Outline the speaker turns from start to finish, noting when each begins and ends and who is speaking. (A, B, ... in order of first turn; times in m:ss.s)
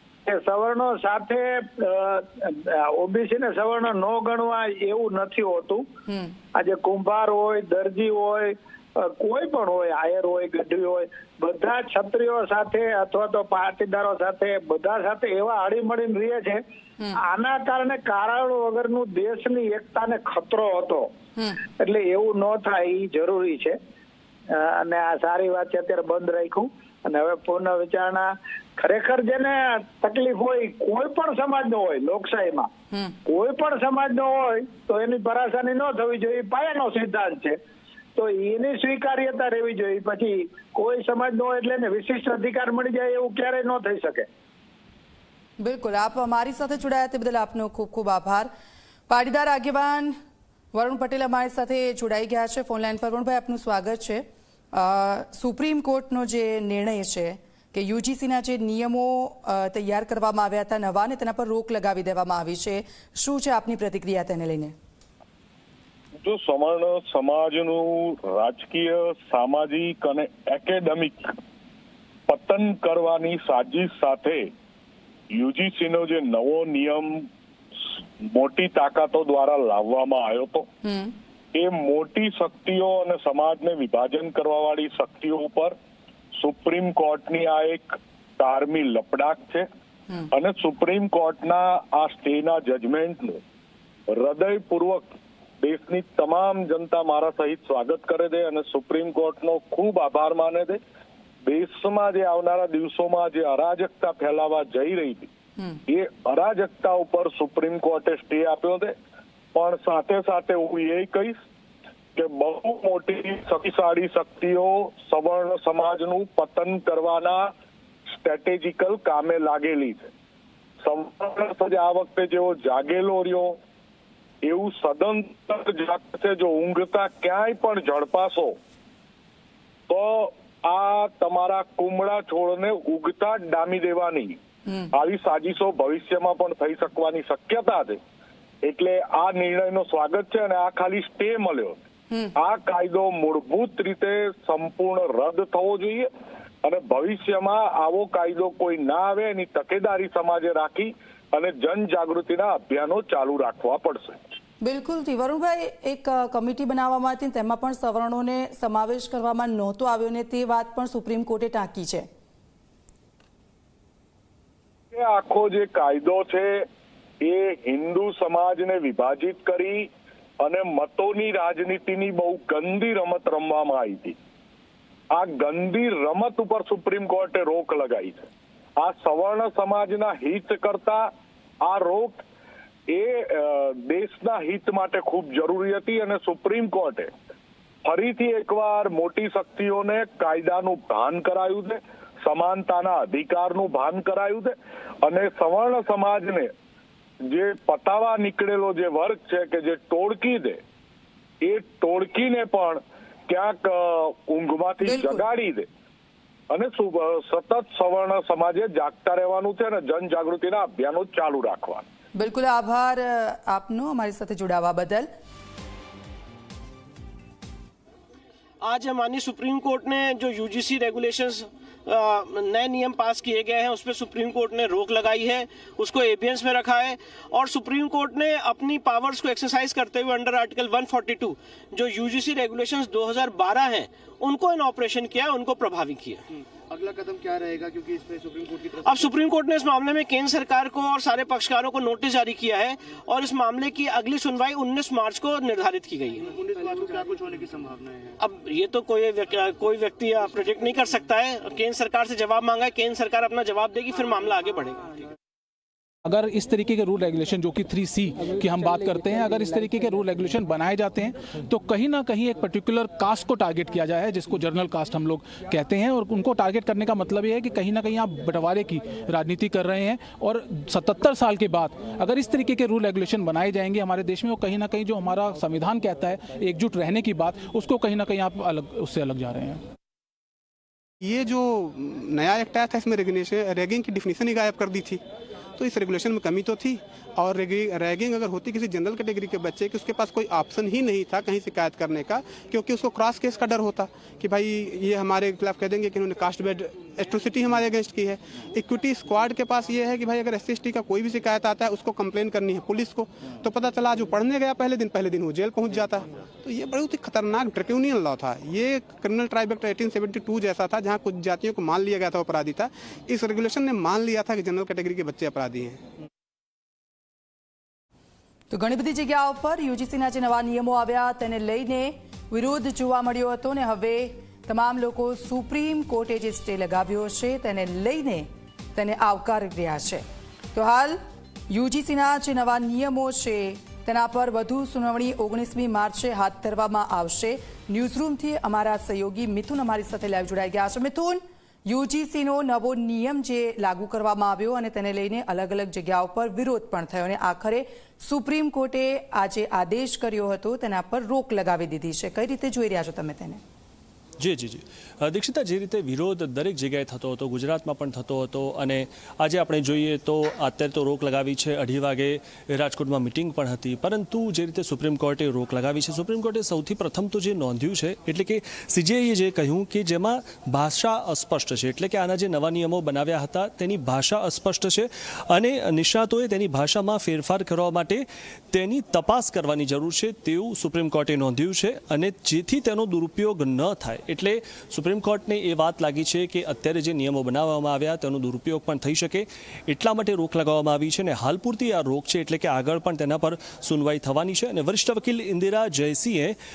0:00.3-0:05.9 A
0:06.5-0:16.6 A
0:17.2-0:21.1 A
0:21.4-0:21.6 B
0:21.8-0:23.8 A
0:24.5-0:32.7 A
0:33.2-0:37.6 A
0:38.2-0:44.3 A
0:45.6-0:48.5 B
0:49.1-0:50.2 B
0:50.7-1:04.7 B
1:06.2-1:11.3 C
1:12.3-1:14.5 C
1:15.3-1:17.2 C
1:18.2-1:20.7 C
1:21.6-1:25.7 C
1:26.4-1:29.7 C
1:30.3-1:33.4 C
1:34.1-1:35.0 C
1:35.6-1:40.8 C
1:41.4-1:45.3 C
1:45.9-1:48.9 C
1:49.6-1:51.3 C
1:52.2-1:57.5 C
1:58.2-2:00.1 C
2:00.8-2:03.6 C
2:04.4-2:08.5 C
2:09.9-2:14.4 C
2:14.9-2:18.0 C
2:18.7-2:21.8 C
2:22.4-2:26.1 C
2:26.6-2:34.2 C
2:34.6-2:42.1 B
2:44.9-2:46.7 C
2:47.2-2:49.9 C
2:50.4-2:54.2 C
2:55.2-2:58.3 C
2:58.8-3:01.1 C
3:01.6-3:02.2 C
3:02.9-3:07.1 C
3:07.8-3:16.5 C
3:17.3-3:20.6 C
3:21.5-3:25.7 C
3:24.8-3:25.2 B
3:26.5-3:31.8 C
3:32.2-3:35.1 B
3:38.6-3:56.3 D
3:56.7-3:58.8 E
3:58.8-4:06.4 D
4:06.3-4:08.1 E
4:08.2-4:15.0 D
4:16.0-4:39.6 F
4:41.0-4:45.0 G
4:45.6-5:15.8 G
5:18.5-5:31.0 B
5:31.5-5:53.4 B
5:54.2-6:36.4 H